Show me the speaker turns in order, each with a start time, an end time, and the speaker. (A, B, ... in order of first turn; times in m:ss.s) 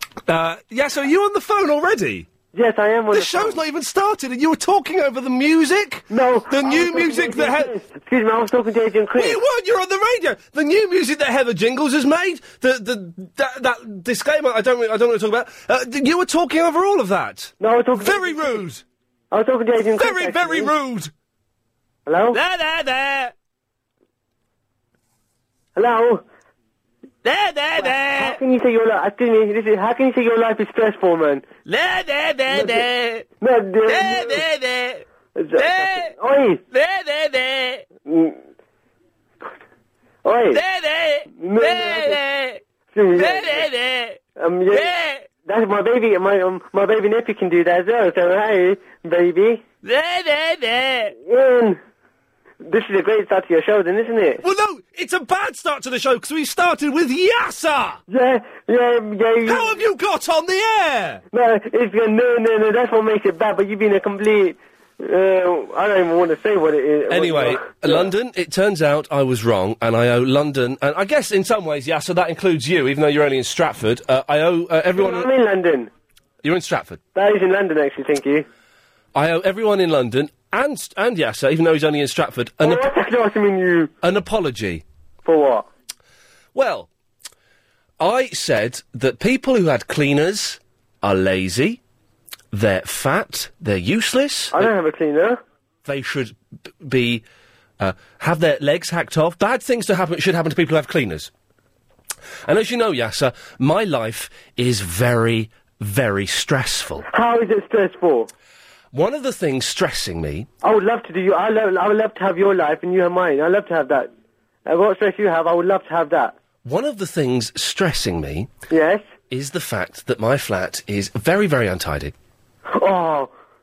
0:00.3-0:02.3 A
0:02.5-0:03.6 B
0:03.1-0:07.7 A
0:06.1-0:09.4 B
0:09.2-0:18.8 A
0:17.6-0:18.6 B
0:19.3-0:20.7 B
0:20.0-0:21.1 A
0:22.1-0:22.4 B
0:22.4-0:22.8 A
0:25.8-0:26.2 B
0:27.8-0:31.4 B
0:32.5-0:34.5 B
0:35.4-0:36.6 B
0:38.0-0:38.4 B
0:40.2-0:40.6 B
0:41.3-0:42.2 B
0:42.9-0:43.7 B
0:44.4-0:49.6 B
0:51.2-0:51.8 B
0:52.6-0:54.4 B
0:54.4-0:58.0 A
0:58.1-0:59.7 B
0:59.4-1:01.2 A
1:01.3-1:08.1 B
1:07.1-1:15.3 A
1:15.0-1:15.9 B
1:16.4-1:17.0 A
1:17.2-1:18.5 B
1:19.2-1:22.9 A
1:22.6-1:23.9 B
1:24.0-1:24.8 A
1:25.2-1:25.7 B
1:26.6-1:26.9 A
1:28.0-1:31.8 A
1:32.5-1:34.7 A
1:34.5-1:35.4 B
1:35.8-1:37.2 A
1:37.8-1:41.3 A
1:42.5-1:47.1 A
1:47.1-1:48.3 B
1:48.9-1:50.5 A
1:50.6-1:54.1 B
1:54.7-1:56.4 B
1:56.6-1:58.5 A
1:58.7-1:59.1 B
1:59.3-2:02.1 A
2:02.7-2:03.3 B